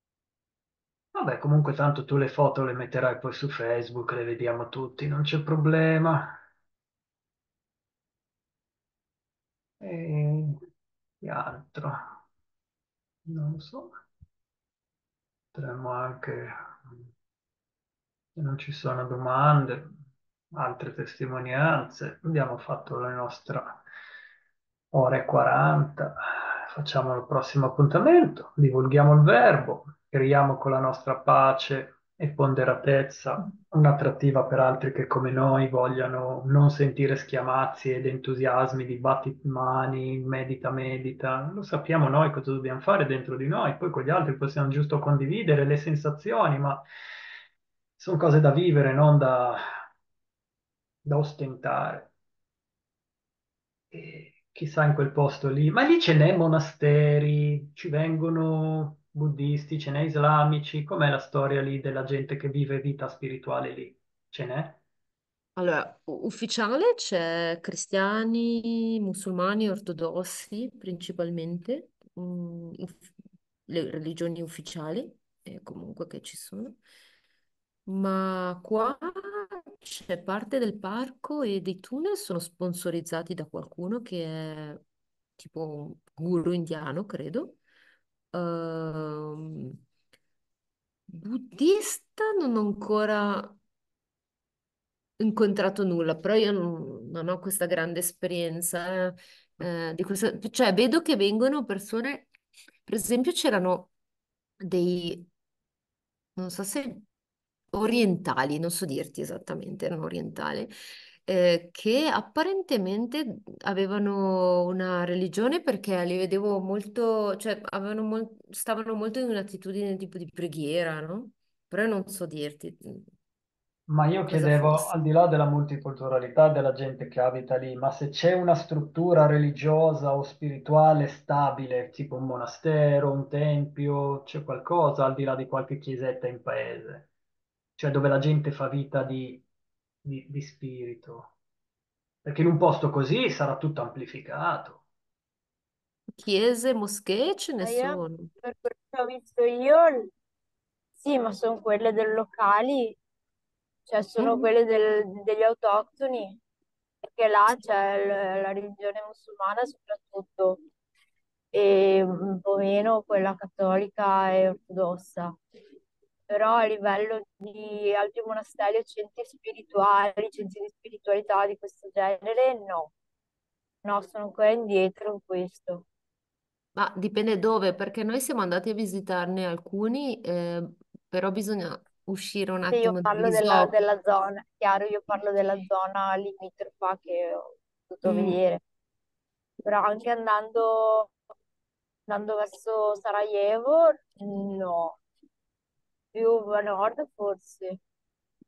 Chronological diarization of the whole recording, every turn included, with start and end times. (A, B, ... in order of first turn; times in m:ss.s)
0:01.1-0:06.3 A
0:09.8-0:10.6 A
0:11.2-0:12.0 A
0:13.2-0:13.9 A
0:15.5-0:16.6 A
0:18.4-0:19.9 A
0:20.5-0:23.8 A
0:24.9-0:46.8 A
0:48.0-0:49.6 A
0:51.0-0:52.1 A
0:53.9-1:04.8 A
1:05.6-1:13.0 B
1:13.7-1:16.8 B
1:17.9-1:24.8 B
1:25.4-1:27.6 B
1:28.3-1:29.8 B
1:31.1-1:33.6 B
1:35.2-1:42.3 B
1:42.8-1:43.9 B
1:44.6-1:45.3 B
1:46.4-1:47.0 B
1:47.7-1:50.7 B
1:51.2-2:03.1 B
2:03.9-2:17.1 A
2:04.3-2:04.9 B
2:17.8-2:19.4 A
2:20.0-2:21.3 A
2:22.2-2:24.8 A
2:26.2-2:28.3 B
2:27.6-2:30.1 C
2:31.0-2:33.0 C
2:33.9-2:36.4 C
2:34.2-2:34.4 B
2:37.1-2:40.6 C
2:41.5-2:45.4 C
2:46.3-2:52.9 C
2:53.8-2:55.8 C
2:56.8-3:03.7 B
3:02.7-3:08.6 C
3:08.0-3:08.4 B
3:09.6-3:11.1 C
3:12.1-3:15.0 C
3:16.1-3:17.8 C